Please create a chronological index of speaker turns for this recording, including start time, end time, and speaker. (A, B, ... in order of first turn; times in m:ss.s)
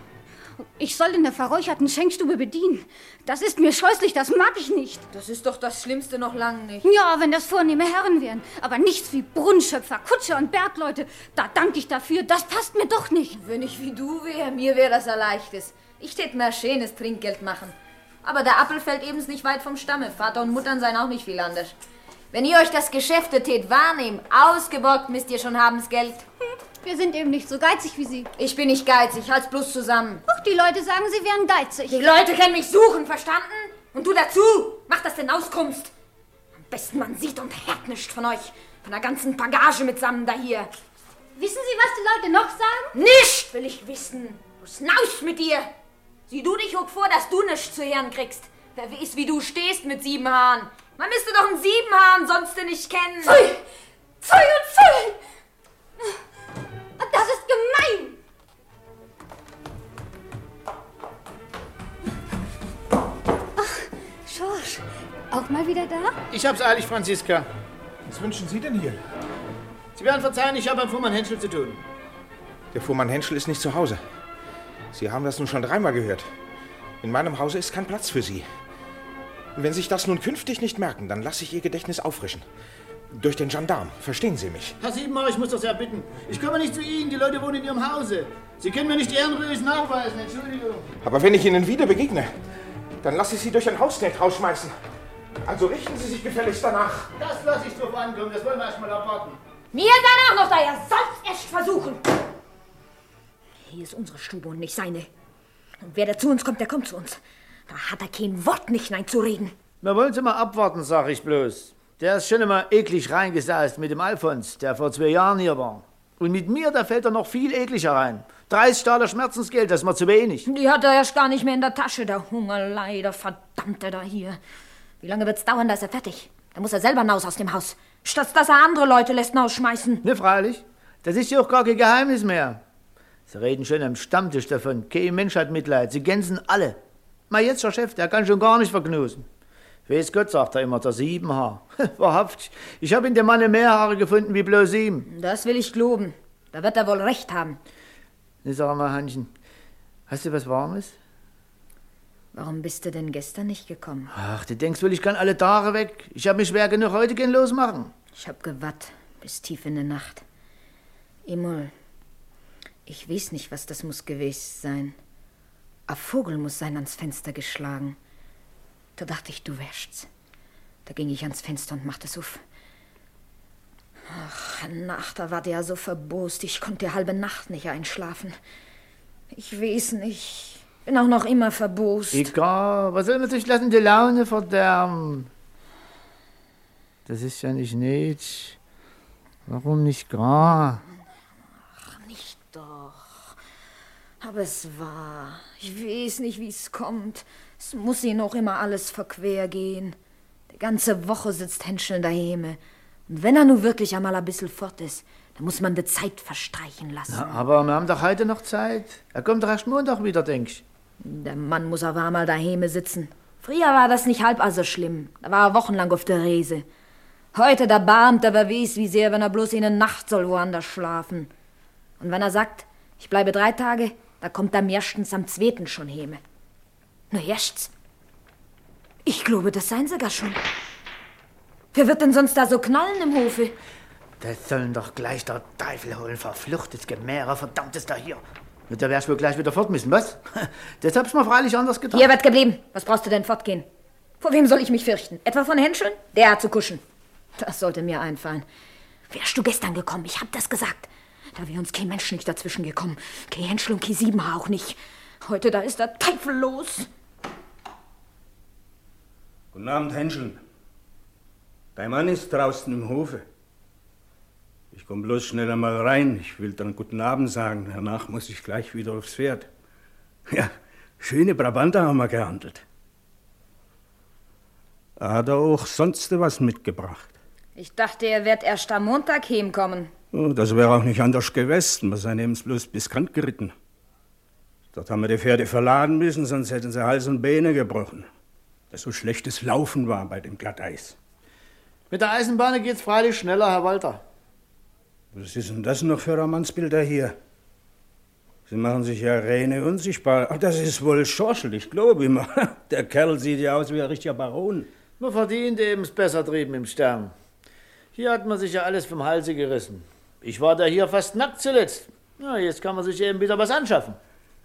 0:00.8-0:05.1 A
0:05.1-0:06.9 B
0:06.8-0:13.4 A
0:13.4-0:21.8 B
0:22.3-0:26.2 B
0:26.8-0:28.3 A
0:28.4-0:30.2 B
0:30.3-0:32.1 A
0:31.9-0:35.9 B
0:36.7-0:40.7 B
0:41.4-0:42.9 A
0:42.9-0:45.7 B
0:46.3-0:53.4 B
0:53.2-0:53.6 A
0:54.2-0:55.1 A
0:57.0-0:58.2 A
1:03.6-1:06.2 A
1:06.3-1:07.5 C
1:08.1-1:09.0 D
1:10.0-1:11.8 C
1:12.7-1:14.0 D
1:14.9-1:16.3 D
1:17.0-1:18.5 D
1:19.6-1:22.5 D
1:23.1-1:24.8 D
1:24.8-1:30.9 C
1:31.0-1:32.4 D
1:33.0-1:34.8 D
1:35.4-1:37.1 D
1:37.2-1:39.4 C
1:39.7-1:42.0 B
1:43.6-1:45.1 B
1:45.8-1:49.6 B
1:49.8-2:00.5 C
2:00.4-2:04.4 B
2:05.0-2:10.0 B
2:10.0-2:12.6 C
2:13.3-2:16.8 C
2:17.3-2:19.3 C
2:19.9-2:25.1 C
2:25.1-2:27.6 B
2:28.4-2:29.3 C
2:30.1-2:31.0 C
2:32.3-2:34.1 B
2:34.1-2:37.9 C
2:38.2-2:40.2 B
2:41.3-2:41.7 B
2:42.9-2:45.0 B
2:45.9-2:48.0 B
2:49.0-2:50.1 B
2:50.9-2:52.4 B
2:54.1-2:58.4 B
2:59.3-3:02.3 B
3:02.1-3:05.3 C
3:07.1-3:08.6 C
3:09.5-3:10.8 C
3:11.8-3:13.4 B
3:14.2-3:20.0 B
3:20.5-3:27.4 B
3:27.1-3:30.6 C
3:31.0-3:36.6 B
3:37.3-3:41.3 B
3:42.0-3:46.2 B
3:47.1-3:47.7 B
3:49.1-3:50.4 B
3:51.7-3:53.6 B
3:54.2-4:02.1 C
4:01.9-4:03.7 B
4:04.2-4:06.8 B
4:07.4-4:08.5 B
4:09.1-4:16.9 B
4:19.5-4:20.4 E
4:21.8-4:23.2 E
4:24.7-4:29.5 E
4:30.3-4:32.6 E
4:35.0-4:37.2 E
4:37.6-4:39.9 B
4:40.1-4:43.5 E
4:44.7-4:48.1 E
4:48.7-4:51.0 E
4:51.9-4:54.0 C
4:55.1-4:57.2 E
4:58.5-5:04.7 E
5:05.0-5:07.1 C
5:08.0-5:14.0 C